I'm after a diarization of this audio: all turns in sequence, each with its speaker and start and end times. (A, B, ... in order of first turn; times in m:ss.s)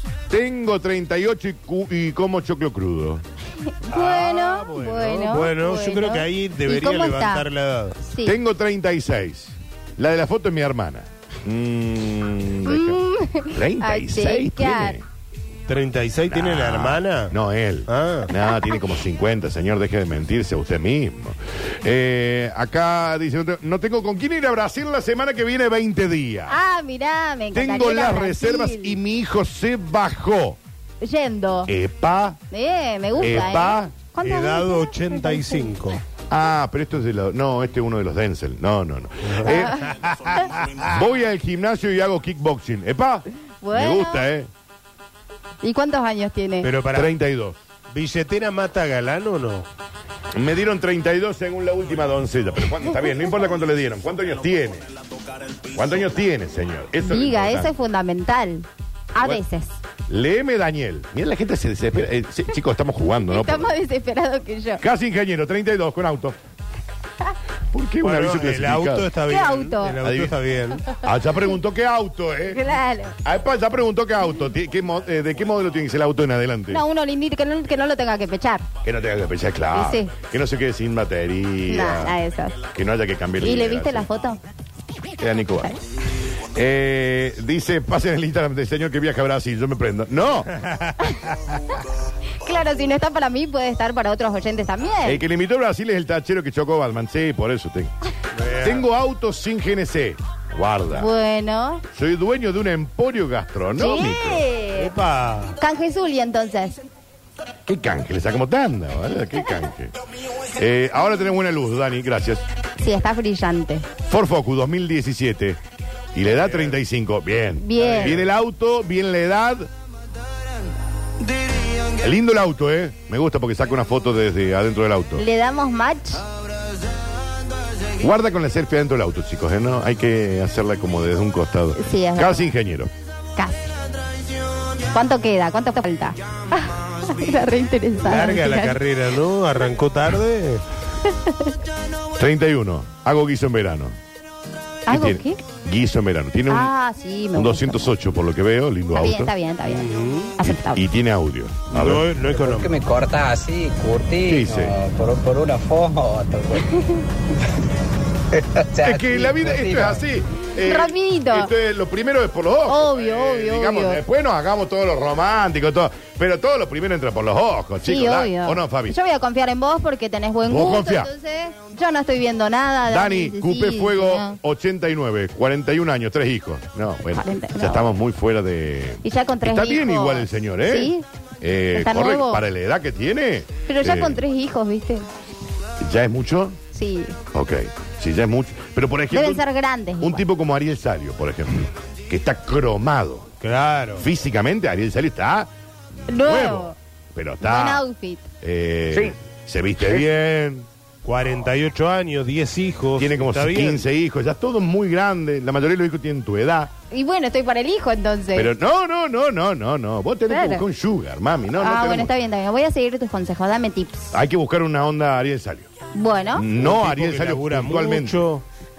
0:00.3-0:03.2 A
0:03.7-0:07.5 B
0:03.9-0:08.0 C
0:08.0-0:08.4 B
0:08.2-0:15.0 A
0:12.7-0:15.0 B
0:15.7-0:17.3 C
0:16.3-0:26.6 A
0:17.9-0:18.3 C
0:26.5-0:29.0 B
0:27.5-0:30.6 A
0:31.0-0:31.7 B
0:31.7-0:32.4 A
0:32.5-0:35.7 B
0:33.2-0:33.9 A
0:34.2-0:36.0 C
0:36.3-0:40.0 A
0:39.2-0:40.9 C
0:39.5-0:39.8 B
0:40.8-0:44.5 A
0:43.6-0:44.2 B
0:45.6-0:46.7 B
0:46.6-0:47.1 C
0:46.9-0:47.6 A
0:47.9-0:49.7 C
0:50.3-0:54.9 A
0:55.7-0:57.7 A
0:57.0-0:59.8 B
1:00.1-1:03.8 A
1:03.3-1:04.8 B
1:04.8-1:06.4 A
1:07.7-1:09.1 A
1:08.0-1:10.8 C
1:09.3-1:10.0 B
1:10.0-1:10.4 A
1:11.0-1:12.6 A
1:12.5-1:13.2 B
1:13.2-1:16.8 A
1:16.7-1:18.7 B
1:18.8-1:22.2 A
1:19.7-1:20.1 B
1:21.7-1:22.6 B
1:22.7-1:24.1 A
1:23.4-1:24.4 B
1:25.2-1:25.7 A
1:26.5-1:30.5 A
1:30.6-1:31.3 C
1:32.4-1:35.2 B
1:35.0-1:37.9 A
1:38.4-1:38.8 C
1:38.6-1:41.1 A
1:40.9-1:41.8 B
1:41.9-1:44.4 A
1:43.8-1:44.9 B
1:44.8-1:45.6 C
1:45.6-1:46.8 B
1:47.7-1:50.0 A
1:50.5-1:52.4 A
1:52.8-1:53.9 B
1:54.1-1:55.6 A
1:56.1-1:59.7 A
1:57.6-1:58.2 B
1:57.8-1:58.1 C
2:02.0-2:05.2 A
2:05.2-2:06.2 B
2:08.0-2:12.9 A
2:11.8-2:12.5 B
2:13.4-2:13.7 B
2:14.9-2:18.8 B
2:18.0-2:20.6 C
2:21.1-2:21.5 B
2:22.2-2:24.0 A
2:24.9-2:25.4 B
2:24.9-2:26.7 A
2:26.5-2:27.9 B
2:27.3-2:29.3 A
2:28.9-2:30.8 B
2:29.7-2:30.3 C
2:30.4-2:32.1 A
2:31.7-2:32.7 C
2:32.3-2:36.7 D
2:34.3-2:34.8 A
2:36.7-2:37.0 B
2:38.3-2:40.0 D
2:38.8-2:49.0 A
2:40.6-2:41.5 B
2:42.7-2:44.0 B
2:47.8-2:54.4 B
2:50.4-2:51.1 A
2:52.9-3:04.2 A
2:57.2-2:57.9 B
2:59.0-3:01.0 B
3:01.7-3:02.4 B
3:03.7-3:05.1 B
3:05.8-3:06.6 A
3:06.7-3:07.2 B
3:07.3-3:09.4 A
3:09.1-3:10.2 B
3:10.0-3:13.3 A
3:13.4-3:14.1 C
3:14.0-3:15.5 A
3:16.0-3:17.8 A
3:16.1-3:16.8 B
3:17.4-3:18.3 B
3:18.4-3:20.7 A
3:21.0-3:23.8 C
3:23.0-3:26.7 A
3:26.9-3:28.5 B
3:28.4-3:32.1 A
3:30.3-3:30.6 B
3:31.6-3:34.1 B
3:34.1-3:35.7 A
3:35.9-3:36.5 B
3:36.4-3:38.2 A
3:36.6-3:38.4 C